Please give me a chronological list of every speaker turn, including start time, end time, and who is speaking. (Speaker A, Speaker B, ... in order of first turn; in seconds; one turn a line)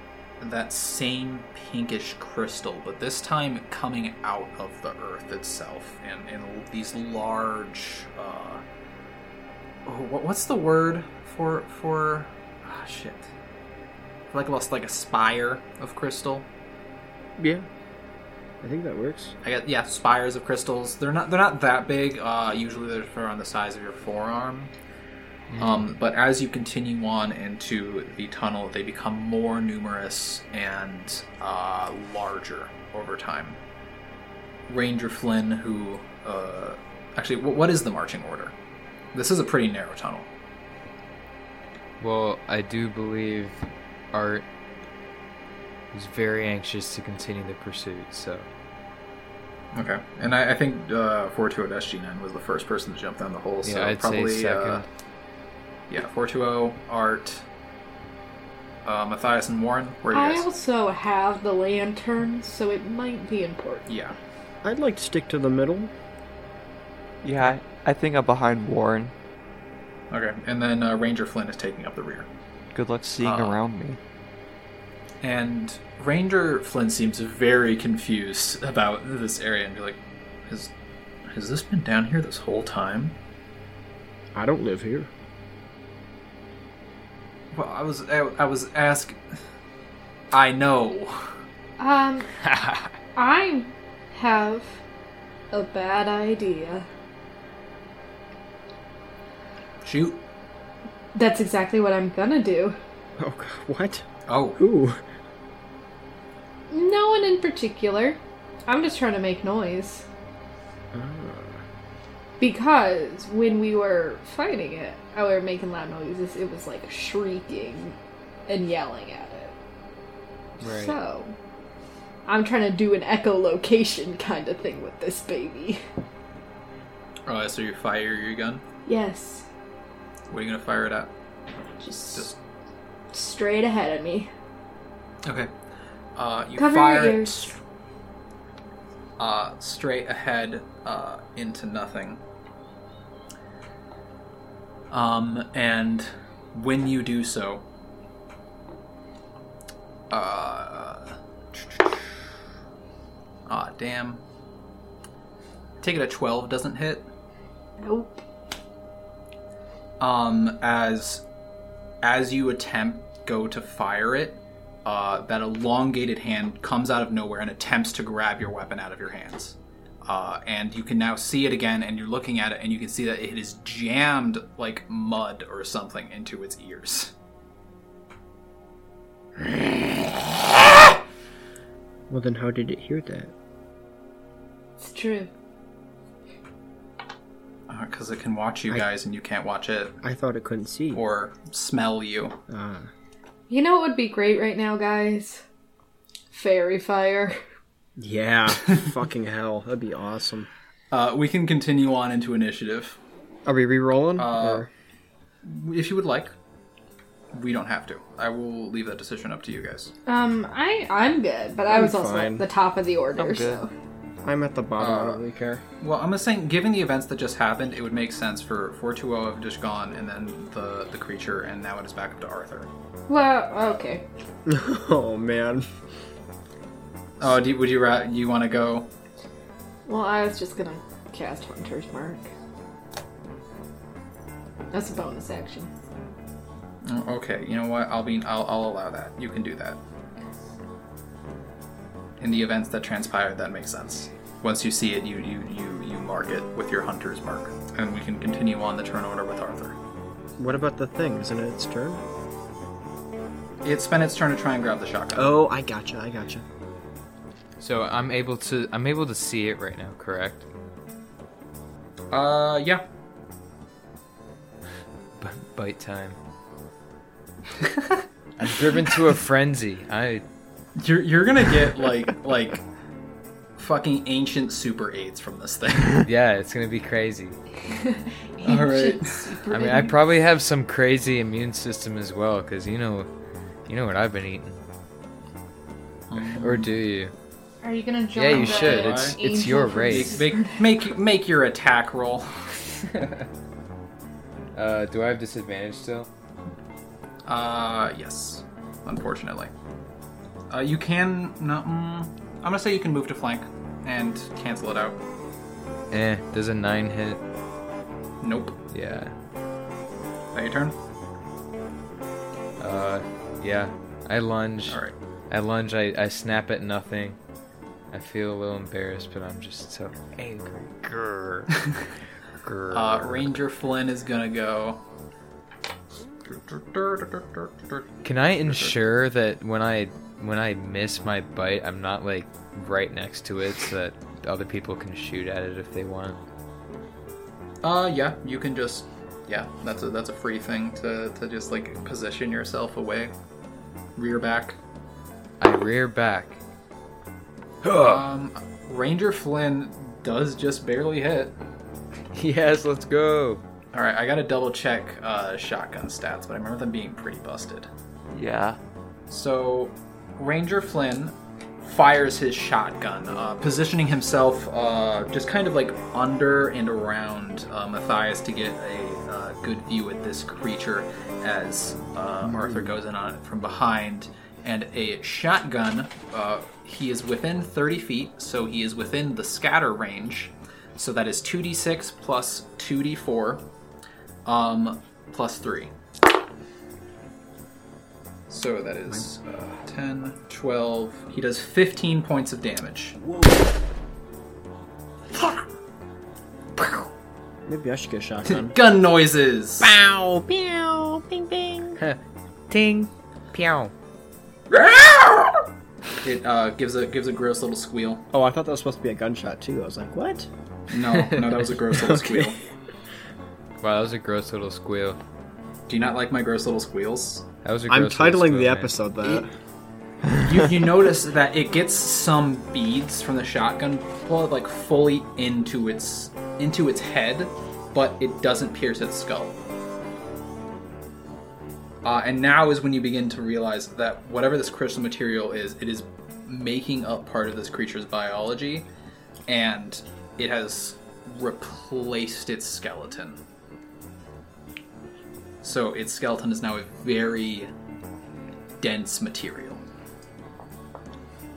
Speaker A: 0.4-8.6
Speaker A: 9.9-13.3
Speaker A: 14.3-16.5
Speaker B: 17.4-17.7
Speaker B: 18.6-19.4
Speaker A: 19.4-24.7
Speaker C: 25.5-25.9
Speaker A: 25.6-33.6
Speaker A: 34.7-38.6
Speaker A: 39.1-40.3
Speaker C: 42.0-43.5
Speaker C: 44.1-44.5
Speaker C: 45.9-48.5
Speaker A: 49.7-54.9
Speaker C: 53.6-54.9
Speaker A: 55.9-57.5
Speaker A: 58.9-60.5
Speaker D: 60.1-63.9
Speaker A: 63.9-64.2
Speaker B: 64.6-65.9
Speaker E: 67.2-69.2
Speaker A: 70.1-72.3
Speaker E: 72.7-74.0
Speaker A: 73.2-73.6
Speaker A: 75.2-80.7
Speaker A: 81.3-83.2
Speaker B: 84.3-85.1
Speaker A: 87.5-89.2
Speaker A: 90.3-91.3
Speaker D: 91.8-92.3
Speaker C: 92.4-92.9
Speaker D: 93.2-94.8
Speaker D: 95.5-96.9
Speaker A: 99.8-100.2
Speaker D: 101.2-102.8
Speaker B: 103.2-104.1
Speaker A: 104.3-104.6
Speaker B: 104.6-105.0
Speaker D: 106.7-110.1
Speaker B: 110.9-111.6
Speaker D: 112.4-118.0
Speaker D: 118.5-119.6
Speaker C: 120.6-121.0
Speaker D: 120.6-121.3
Speaker D: 122.3-125.8
Speaker A: 127.3-128.6
Speaker D: 128.9-129.5
Speaker A: 130.3-131.1
Speaker D: 131.8-132.3
Speaker A: 132.1-132.4
Speaker D: 133.1-134.3
Speaker A: 135.2-135.5
Speaker A: 136.2-137.6
Speaker D: 136.6-137.4
Speaker A: 139.2-142.2
Speaker A: 144.9-147.7
Speaker A: 150.1-152.3
Speaker A: 153.5-154.2
Speaker A: 155.8-157.1
Speaker D: 157.8-158.2
Speaker A: 160.0-161.2
Speaker A: 162.0-177.1
Speaker B: 182.1-183.3
Speaker D: 184.8-185.3
Speaker A: 187.7-190.0
Speaker B: 190.0-191.0
Speaker A: 190.9-192.4
Speaker B: 192.5-192.9
Speaker D: 193.5-195.4
Speaker D: 196.3-197.4
Speaker B: 198.0-200.5
Speaker A: 200.9-203.0
Speaker B: 203.4-204.7
Speaker A: 204.2-204.7
Speaker A: 205.4-206.3
Speaker A: 207.3-209.9
Speaker D: 210.1-213.7
Speaker B: 211.7-212.4
Speaker E: 213.2-213.7
Speaker B: 214.2-215.6
Speaker A: 214.8-222.7
Speaker D: 223.1-224.1
Speaker B: 224.5-225.7
Speaker A: 227.2-228.9
Speaker D: 229.9-232.3
Speaker D: 234.7-235.7
Speaker A: 236.8-239.8
Speaker A: 242.2-249.8
Speaker B: 250.4-252.0
Speaker A: 253.6-255.4
Speaker B: 255.2-256.4
Speaker C: 257.6-260.5
Speaker A: 262.1-262.8
Speaker C: 265.2-266.2
Speaker C: 268.4-270.2
Speaker A: 270.8-272.6
Speaker A: 273.6-276.1
Speaker C: 276.0-277.4
Speaker D: 277.7-280.0
Speaker A: 278.4-279.2
Speaker C: 279.5-283.1
Speaker C: 283.7-284.6
Speaker A: 286.1-286.7
Speaker C: 286.4-287.1
Speaker D: 287.6-290.5
Speaker C: 288.1-290.2
Speaker A: 288.3-289.2
Speaker A: 289.9-292.6
Speaker C: 292.9-293.3
Speaker C: 294.6-296.1
Speaker A: 297.3-299.5
Speaker A: 300.5-305.0
Speaker C: 305.9-307.2
Speaker A: 308.2-308.6
Speaker C: 308.7-309.1
Speaker A: 310.3-310.8
Speaker C: 312.6-317.2
Speaker A: 314.7-314.9
Speaker C: 317.9-321.5
Speaker C: 322.4-323.3
Speaker A: 322.7-324.8
Speaker A: 326.2-328.8
Speaker C: 328.0-336.2
Speaker A: 337.6-343.1
Speaker A: 344.0-344.6
Speaker C: 345.4-346.4
Speaker C: 347.6-348.1
Speaker A: 347.8-351.4
Speaker C: 352.1-353.4
Speaker A: 353.7-357.7
Speaker E: 358.1-358.6
Speaker A: 359.1-383.4
Speaker B: 372.2-372.7
Speaker A: 384.2-385.7
Speaker A: 388.3-393.0
Speaker B: 393.0-393.4
Speaker B: 397.4-398.5
Speaker A: 398.3-399.7
Speaker B: 399.6-401.8
Speaker C: 402.5-403.7
Speaker A: 406.0-408.1
Speaker B: 408.1-410.3
Speaker A: 410.7-412.4
Speaker B: 411.7-412.4
Speaker C: 413.6-415.0
Speaker A: 415.7-417.3
Speaker C: 417.4-419.2
Speaker B: 417.7-419.3
Speaker A: 420.2-429.4
Speaker A: 431.8-438.7
Speaker A: 439.3-443.2
Speaker A: 445.4-447.5
Speaker A: 448.6-449.6